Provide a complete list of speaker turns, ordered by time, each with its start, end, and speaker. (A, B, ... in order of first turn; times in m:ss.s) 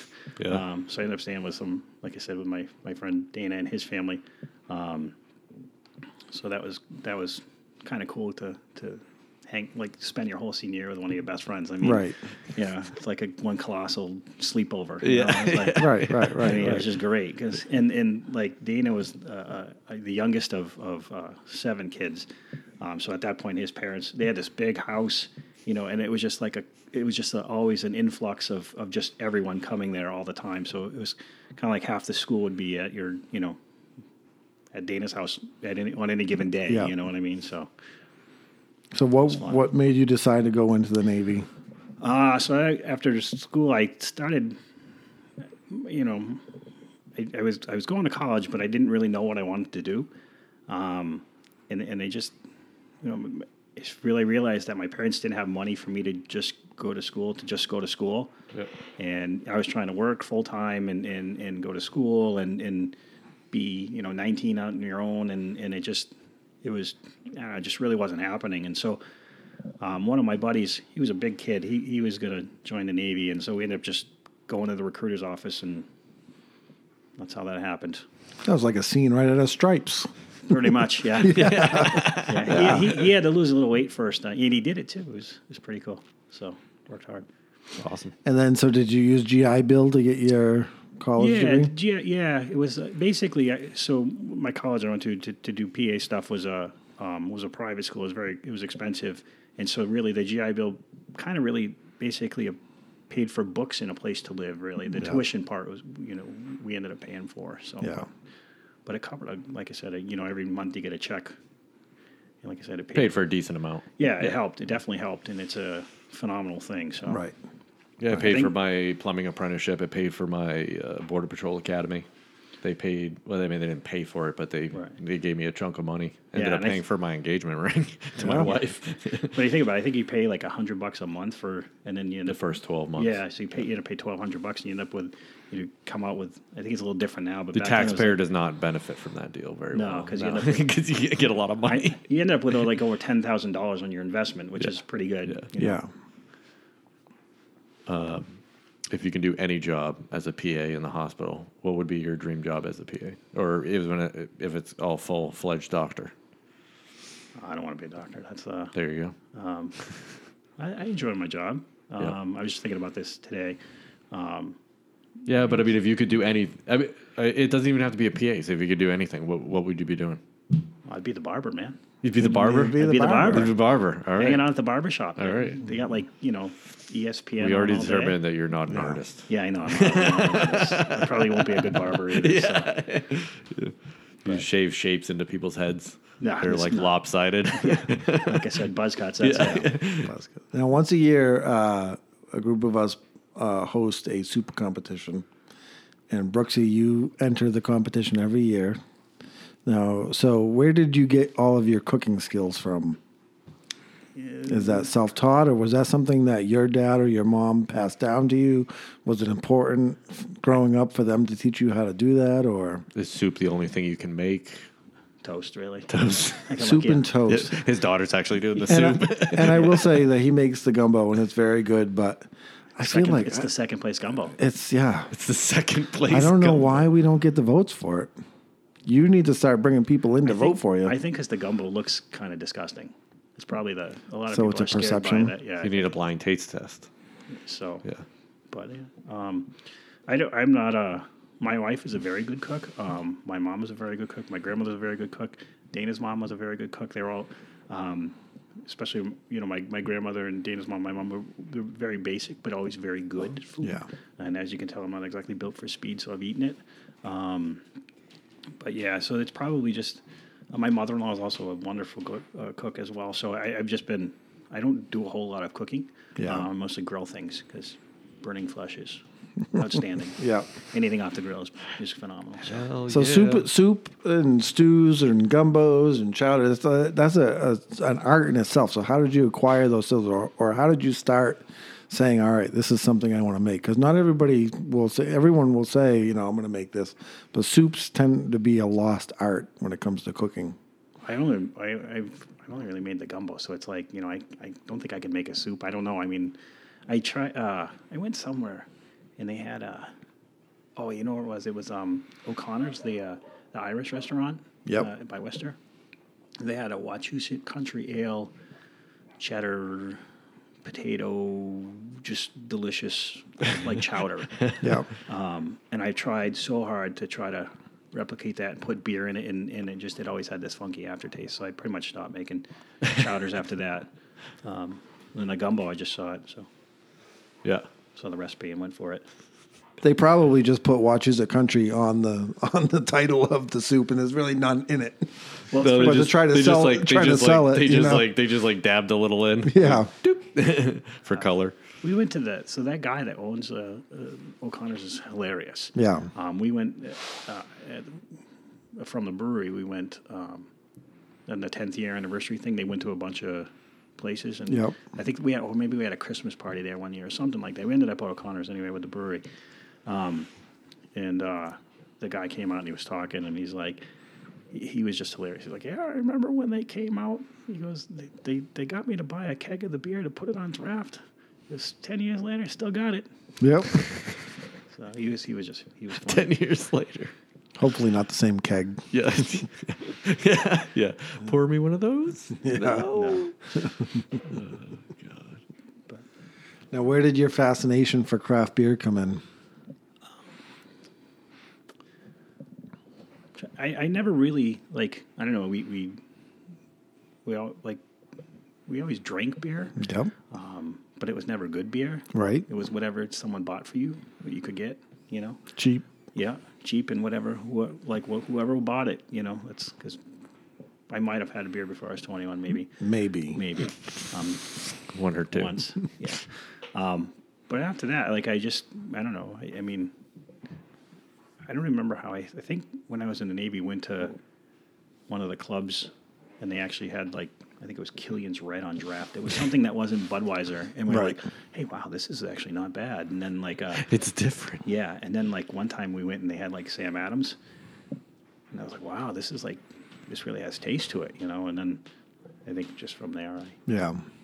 0:00.5-0:05.1 A
0:06.3-0:22.3 A
0:11.8-0:12.2 B
0:15.0-0:16.9 C
0:15.8-0:16.8 B
0:22.8-0:33.6 A
0:34.7-0:37.7 A
0:38.9-0:41.5 B
0:39.3-0:39.6 A
0:42.0-0:44.6 A
0:45.7-0:46.6 A
0:47.1-0:50.1 A
0:50.7-0:52.4 A
0:53.0-0:58.3 A
0:59.0-1:02.9 A
1:03.5-1:09.0 A
1:09.8-1:15.9 A
1:17.2-1:18.0 A
1:18.4-1:22.8 B
1:20.5-1:27.3 A
1:21.3-1:22.8 C
1:27.8-1:28.1 C
1:28.2-1:31.7 B
1:31.2-1:42.6 A
1:43.1-1:48.1 A
1:48.9-1:51.4 A
1:52.4-1:53.2 A
1:52.9-1:54.4 C
1:54.0-1:57.2 A
1:57.1-1:57.3 B
1:58.0-2:02.1 C
1:58.2-1:58.5 A
2:02.6-2:09.4 C
2:06.3-2:06.8 A
2:08.2-2:08.6 B
2:09.3-2:12.4 A
2:12.3-2:13.2 C
2:12.9-2:18.2 A
2:17.5-2:22.0 C
2:19.7-2:20.7 A
2:21.6-2:25.8 A
2:25.6-2:25.9 B
2:27.9-2:28.4 C
2:28.9-2:36.1 C
2:37.4-2:39.8 A
2:38.8-2:39.1 C
2:40.6-2:43.6 A
2:44.1-2:44.6 A
2:45.3-2:50.2 C
2:50.9-2:51.8 A
2:52.0-2:54.5 C
2:52.2-2:53.5 B
2:52.7-2:53.6 A
2:54.2-2:58.2 A
2:55.2-2:55.6 C
2:57.4-3:08.6 C
2:58.7-2:59.0 B
2:59.3-3:02.7 A
3:06.2-3:09.8 A
3:09.2-3:10.1 C
3:10.1-3:15.3 B
3:16.1-3:18.8 B
3:19.6-3:23.0 B
3:24.2-3:24.8 A
3:24.5-3:32.9 B
3:33.0-3:34.6 C
3:35.2-3:35.9 A
3:35.9-3:36.5 C
3:36.4-3:37.2 A
3:36.6-3:37.5 B
3:37.3-3:40.0 C
3:38.7-3:43.5 B
3:42.8-3:44.4 A
3:44.4-3:45.1 B
3:45.1-3:46.9 C
3:46.1-3:48.1 B
3:48.8-3:51.0 B
3:50.2-3:55.9 A
3:54.3-3:55.3 B
3:55.6-3:56.9 C
3:57.3-3:57.9 A
3:58.5-3:59.5 A
4:00.1-4:08.1 A
4:08.6-4:17.6 A
4:18.6-4:32.7 A
4:26.2-4:26.5 B
4:30.2-4:30.5 B
4:32.4-4:33.5 C
4:32.9-4:50.6 B
4:51.0-4:56.4 A
4:56.9-4:58.7 A
4:59.2-4:59.9 A
5:00.8-5:05.6 A
5:06.4-5:08.3 A
5:09.2-5:10.0 A
5:10.6-5:23.9 A
5:14.6-5:14.9 B
5:24.4-5:26.5 A
5:28.0-5:29.0 A
5:29.8-5:35.1 B
5:35.5-5:36.2 A
5:35.6-5:41.6 C
5:35.6-5:38.1 B
5:39.4-5:39.9 B
5:41.8-5:48.0 A
5:45.7-5:46.1 B
5:48.8-5:50.5 A
5:51.3-5:59.2 A
5:54.5-5:54.8 B
5:59.9-6:00.3 A
6:01.0-6:03.8 A
6:04.5-6:11.0 A
6:11.5-6:13.1 A
6:13.4-6:13.8 B
6:14.7-6:16.3 A
6:16.0-6:17.1 C
6:17.6-6:18.8 B
6:18.9-6:23.3 C
6:22.4-6:22.9 B
6:22.9-6:23.2 A
6:24.3-6:25.4 C
6:26.7-6:29.2 B
6:33.4-6:36.0 A
6:37.2-6:37.8 A
6:38.7-6:39.8 A
6:39.8-6:40.1 B
6:40.3-6:45.4 A
6:42.1-6:42.5 B
6:45.6-6:45.8 B
6:46.1-6:50.0 A
6:50.9-6:52.8 A
6:52.8-6:53.4 B
6:53.3-6:54.5 A
6:54.9-6:55.6 C
6:55.3-6:59.9 A
7:01.5-7:04.1 A
7:05.1-7:13.9 A
7:10.9-7:11.2 B
7:13.8-7:14.6 C
7:14.6-7:17.4 A
7:18.5-7:21.8 A
7:22.4-7:23.6 A
7:23.7-7:24.0 B